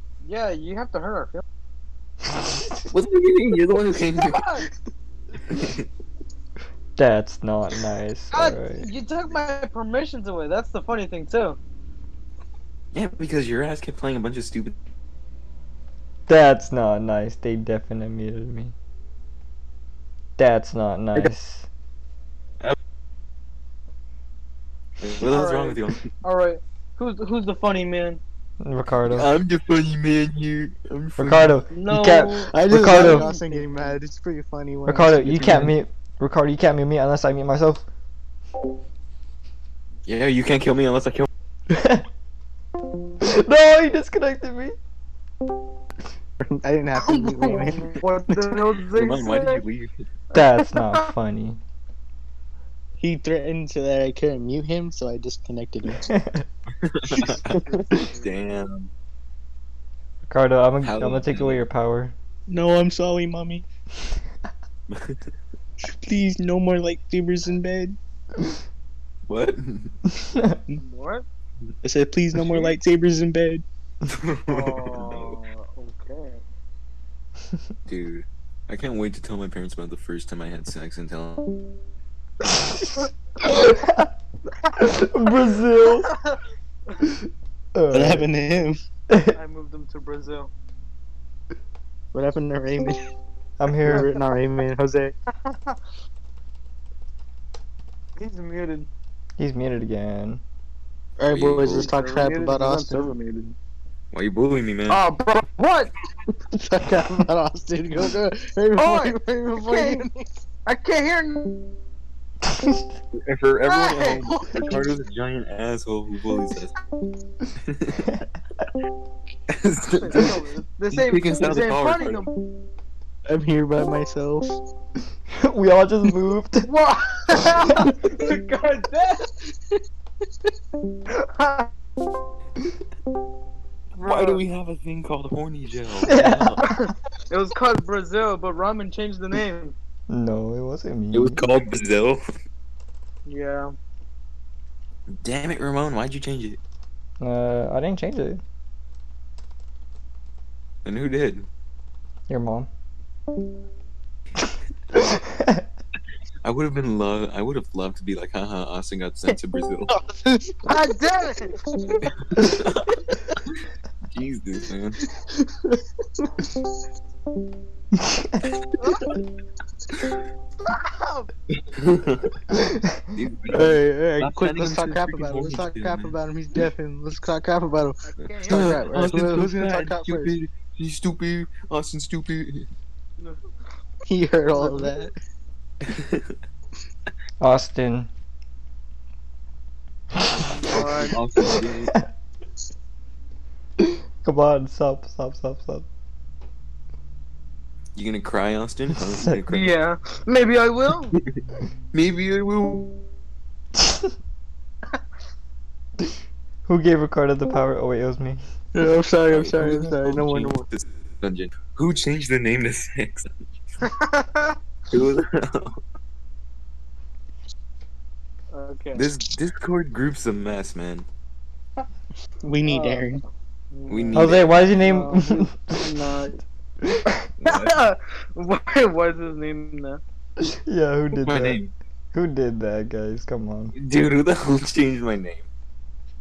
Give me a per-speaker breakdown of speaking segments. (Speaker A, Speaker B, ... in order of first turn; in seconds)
Speaker A: 0.2-1.4, 4.2-4.7, 8.3-11.6, 25.2-28.2, 31.7-34.0, 47.0-49.6, 50.4-51.1, 57.7-58.2, 70.8-71.2, 74.5-76.4, 86.0-86.4, 89.3-90.5, 95.5-95.8, 98.2-98.9, 101.7-103.5, 104.9-105.9, 108.8-110.1, 110.7-111.8, 113.7-114.8, 120.0-122.3, 126.7-129.4, 131.1-131.7, 134.0-134.4, 136.6-139.8, 143.3-143.7, 160.6-161.6, 168.8-169.2, 170.6-171.3, 178.0-179.0, 183.2-183.4, 184.6-184.9, 190.4-191.2, 199.5-201.2, 213.8-214.6, 218.5-219.1, 222.7-226.4, 227.4-230.0
Speaker B: 2.3-2.8, 7.0-8.9, 16.3-18.7, 20.4-21.7, 28.6-29.3, 31.2-33.3, 34.9-37.9, 41.7-42.1, 43.2-44.8, 50.3-51.6, 56.0-56.5, 60.3-62.1, 70.1-70.6, 82.6-84.1, 84.8-86.1, 87.8-88.3, 89.1-89.4, 93.6-94.1, 99.4-100.4, 112.5-112.8, 125.3-126.7, 136.1-136.6, 140.1-141.4, 147.2-148.4, 152.3-152.7, 155.0-155.6, 168.0-168.4, 172.5-173.0, 187.4-188.1, 191.4-192.1, 193.8-195.9, 198.9-199.4, 206.7-208.4, 224.1-226.0, 226.8-227.2, 230.4-231.6, 232.1-233.7
Speaker C: 2.9-4.6, 5.5-5.9, 12.9-14.8, 25.0-26.1, 29.1-31.6, 35.4-35.7, 40.1-41.3, 48.8-49.9, 56.8-58.9, 60.8-61.6, 64.9-65.2, 69.3-70.0, 74.1-75.4, 77.9-81.6, 101.3-101.9, 104.1-105.0, 113.1-116.7, 117.6-118.1, 119.5-122.2, 134.0-136.7, 141.1-142.2, 145.2-146.6, 150.8-151.5, 156.4-159.9, 162.3-163.5, 164.1-165.0, 171.5-172.4, 173.1-176.2, 178.4-182.7, 185.8-186.3, 190.6-191.9, 197.9-199.7, 201.9-203.0, 209.3-213.3, 214.9-215.8, 218.9-221.1, 223.9-224.6, 227.4-227.8, 231.2-231.7, 233.8-235.5
Speaker D: 32.5-35.7, 46.4-47.9, 53.0-56.0, 62.5-63.6, 65.8-68.0, 71.8-73.6, 87.9-88.8, 92.1-93.0, 93.8-95.2, 101.2-103.1, 106.5-110.3, 123.3-124.6, 160.2-160.9, 165.4-166.4, 173.5-180.4, 184.1-185.1, 208.8-210.7, 222.4-223.2